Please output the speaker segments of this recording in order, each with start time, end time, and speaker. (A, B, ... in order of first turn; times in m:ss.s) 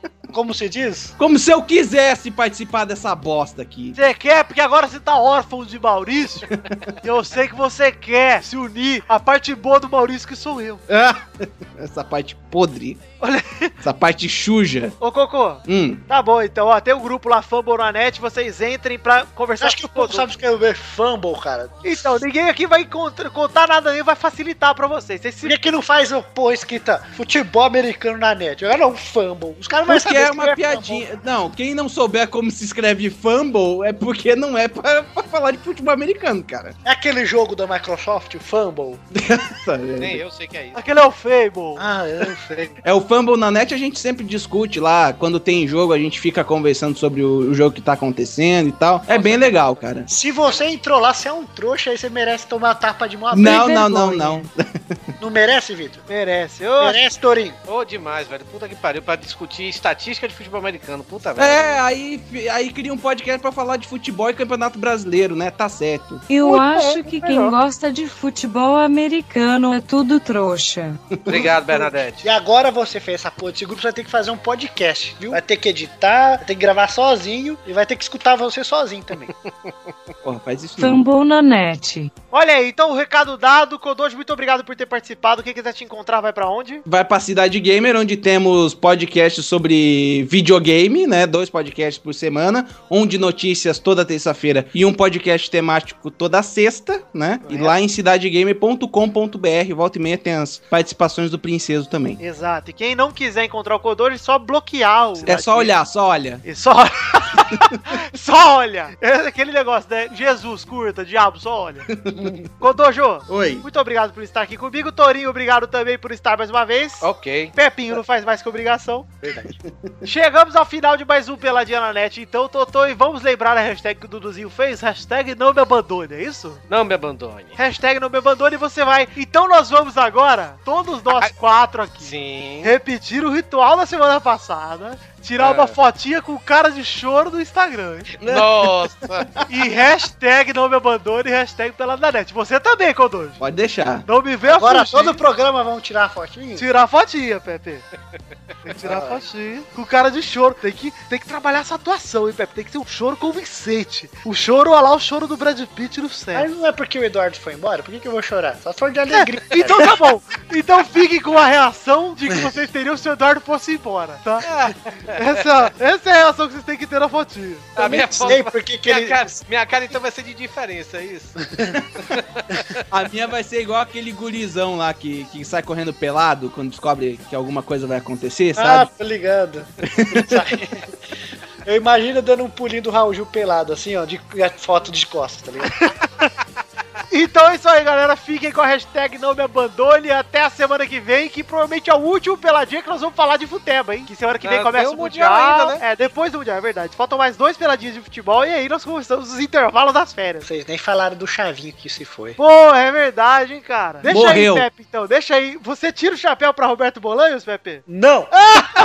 0:00.3-0:01.2 A
0:01.2-0:04.0 B
0:04.0-0:06.5 C
0:06.5-0:06.9 B
0:07.0-0:10.8 C
0:10.9-0:13.0 B
0:13.2-0:13.7 C
0:13.8-0:15.0 B
0:15.0-0:20.3 C
0:15.7-0:16.0 B
0:19.6-0:22.2 A
0:21.8-0:25.6 C
0:25.4-0:31.1 A
0:29.9-0:36.8 B
0:36.8-0:39.0 A
0:39.1-0:40.2 B
0:40.0-0:40.9 D
0:40.8-0:41.9 C
0:41.8-0:42.8 A
0:42.8-0:50.1 B
0:49.1-0:49.9 D
0:50.1-0:54.5 A
0:53.3-0:55.0 B
0:55.2-0:56.0 A
0:56.1-0:57.0 C
0:56.8-0:57.6 A
0:57.7-1:01.8 D
1:01.4-1:06.2 B
1:06.3-1:11.0 E
1:11.1-1:11.6 B
1:11.3-1:12.2 D
1:12.2-1:19.3 A
1:20.2-1:21.0 B
1:20.8-1:22.1 E
1:22.3-1:26.8 C
1:26.9-1:42.2 B
1:37.4-1:37.7 C
1:42.2-1:45.8 C
1:45.2-1:46.4 B
1:46.4-1:51.9 C
1:51.9-1:52.5 B
1:52.6-1:59.1 C
1:53.3-1:53.7 B
1:57.0-1:57.5 D
1:59.2-1:59.9 B
2:00.0-2:06.6 C
2:06.7-2:07.6 D
2:07.6-2:18.1 C
2:12.0-2:12.7 D
2:15.4-2:15.8 D
2:18.2-2:19.5 B
2:18.2-2:19.3 D
2:19.5-2:23.4 C
2:23.4-2:24.1 B
2:24.1-2:25.2 C
2:24.5-2:26.7 A
2:26.6-2:27.8 C
2:28.7-2:36.5 C
2:28.8-2:29.2 A
2:36.3-2:39.9 A
2:39.1-2:44.5 C
2:44.4-2:45.5 D
2:45.0-2:48.3 C
2:47.8-2:51.4 D
2:47.8-2:49.4 A
2:52.1-2:52.8 D
2:52.9-2:58.9 B
2:58.6-3:01.0 A
2:59.9-3:00.3 B
3:01.6-3:05.9 A
3:05.8-3:06.3 C
3:07.1-3:20.5 C
3:14.4-3:15.8 D
3:20.4-3:22.4 A
3:22.4-3:27.8 C
3:24.0-3:24.7 B
3:27.9-3:28.4 A